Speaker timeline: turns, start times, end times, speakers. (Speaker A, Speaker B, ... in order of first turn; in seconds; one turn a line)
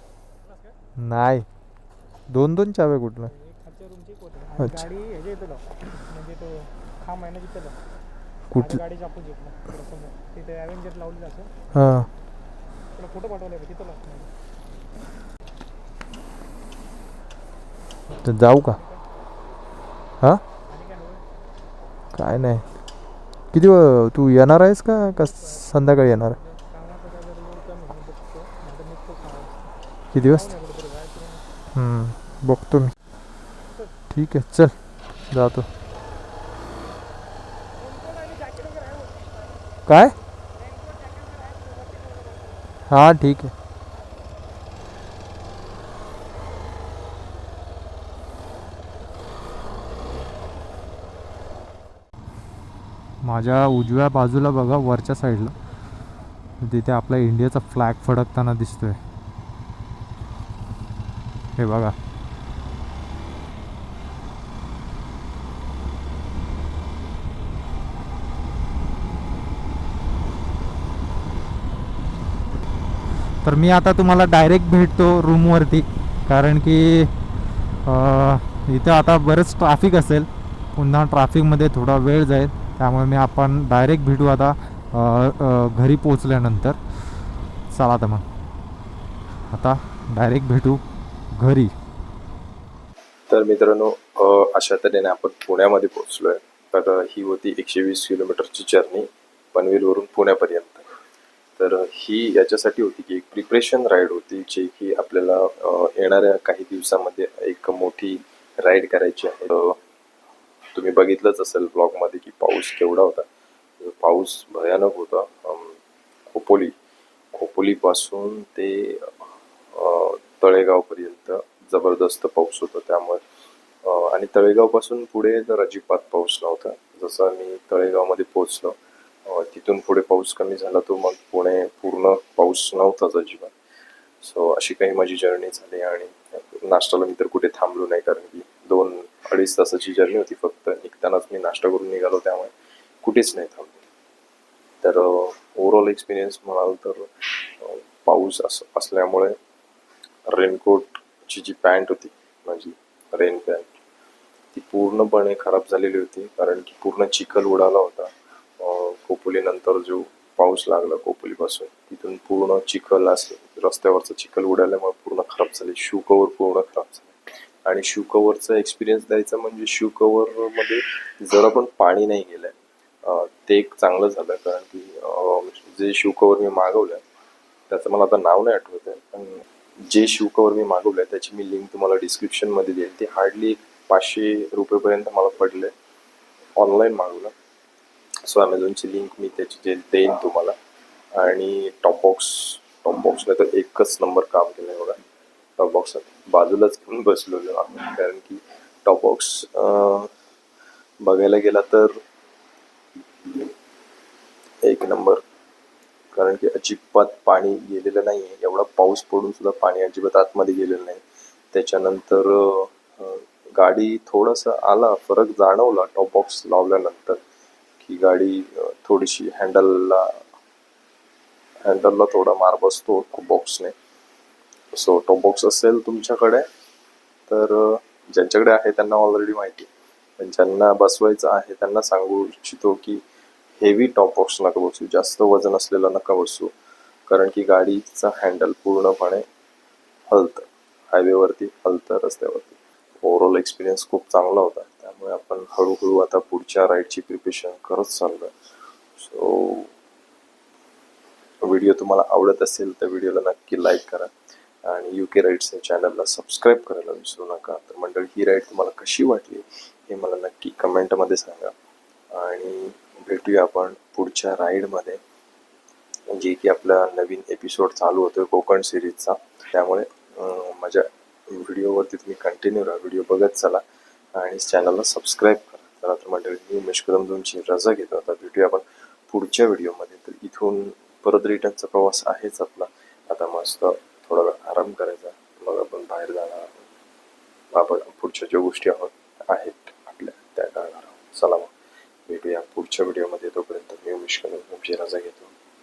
Speaker A: 1.0-1.5
Speaker A: 2.3-3.3
Speaker B: 3.5-7.8
Speaker A: 4.6-4.9
Speaker A: 8.5-8.8
Speaker B: 8.7-11.5
Speaker A: 11.7-12.1
Speaker B: 12.9-14.3
Speaker A: 18.1-18.8
Speaker B: 20.7-21.2
Speaker A: 22.1-22.6
Speaker A: 23.5-26.4
Speaker B: 26.4-29.7
Speaker A: 30.1-30.6
Speaker B: 30.4-31.4
Speaker A: 31.7-32.9
Speaker A: 34.1-34.7
Speaker A: 35.3-35.7
Speaker B: 37.8-39.6
Speaker A: 39.9-40.1
Speaker B: 40.6-42.5
Speaker A: 42.9-43.5
Speaker A: 53.2-55.5
Speaker A: 56.6-59.0
Speaker A: 61.6-61.9
Speaker A: 73.4-77.1
Speaker A: 77.8-86.8
Speaker A: 87.7-88.2
Speaker A: 89.5-91.7
Speaker C: 93.3-100.9
Speaker C: 101.6-109.8
Speaker C: 110.7-113.3
Speaker C: 113.8-115.8
Speaker C: 116.3-116.7
Speaker C: 117.3-119.2
Speaker C: 119.7-123.2
Speaker C: 123.8-133.5
Speaker C: 134.2-142.5
Speaker C: 143.0-143.8
Speaker C: 144.8-149.4
Speaker C: 150.3-153.7
Speaker C: 154.5-177.0
Speaker C: 177.7-185.7
Speaker C: 186.6-187.3
Speaker C: 188.3-190.5
Speaker C: 191.1-195.0
Speaker C: 195.6-200.1
Speaker C: 201.0-201.9
Speaker C: 203.2-203.5
Speaker C: 204.6-205.2
Speaker C: 206.1-217.2
Speaker C: 217.8-220.2
Speaker C: 221.6-223.7
Speaker C: 224.7-226.4
Speaker C: 227.3-233.0
Speaker C: 233.6-236.5
Speaker C: 237.1-239.2
Speaker C: 240.1-248.3
Speaker C: 249.0-249.7
Speaker C: 251.4-254.1
Speaker C: 254.6-261.5
Speaker C: 262.1-265.0
Speaker C: 266.1-273.6
Speaker C: 274.1-286.6
Speaker C: 287.5-291.5
Speaker C: 292.1-295.3